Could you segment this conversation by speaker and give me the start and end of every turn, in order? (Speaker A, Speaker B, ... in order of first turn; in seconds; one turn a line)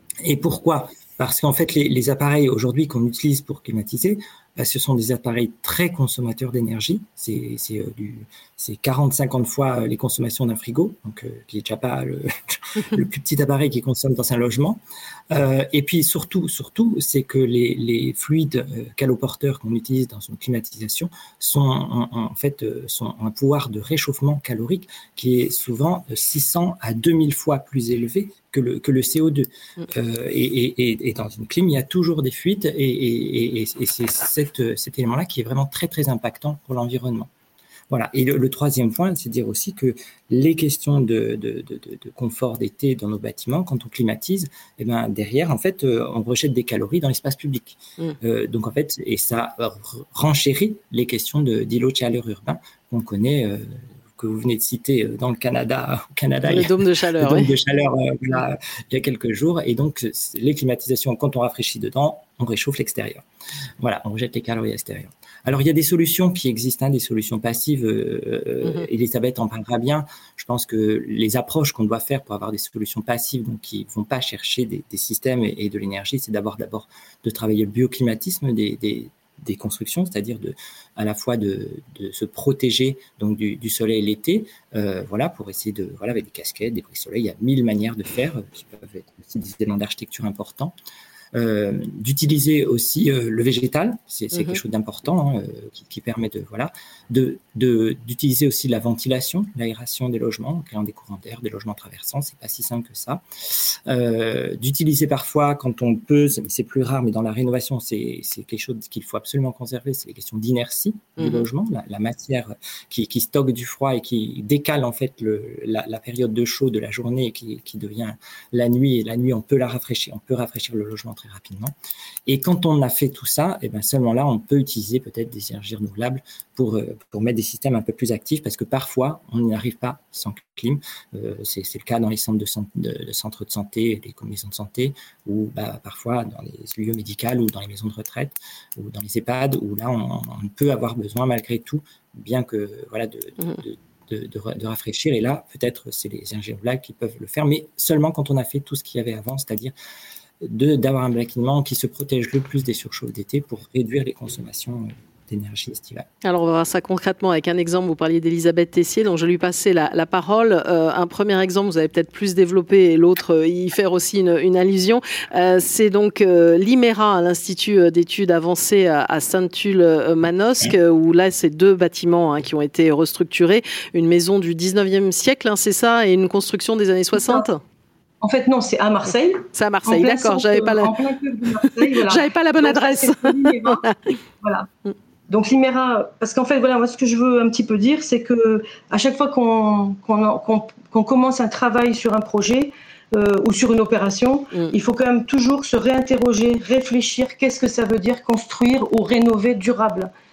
Speaker A: 0.2-14.8
Speaker A: 15.3-37.3
Speaker A: 37.9-63.2
Speaker B: 56.5-57.5
Speaker A: 63.8-90.8
Speaker A: 91.3-121.7
Speaker B: 111.2-111.4
Speaker A: 122.3-149.7
Speaker A: 150.4-156.1
Speaker B: 156.2-177.6
Speaker C: 177.2-177.4
Speaker C: 178.2-184.7
Speaker B: 179.5-180.9
Speaker B: 181.6-184.1
Speaker C: 185.3-200.1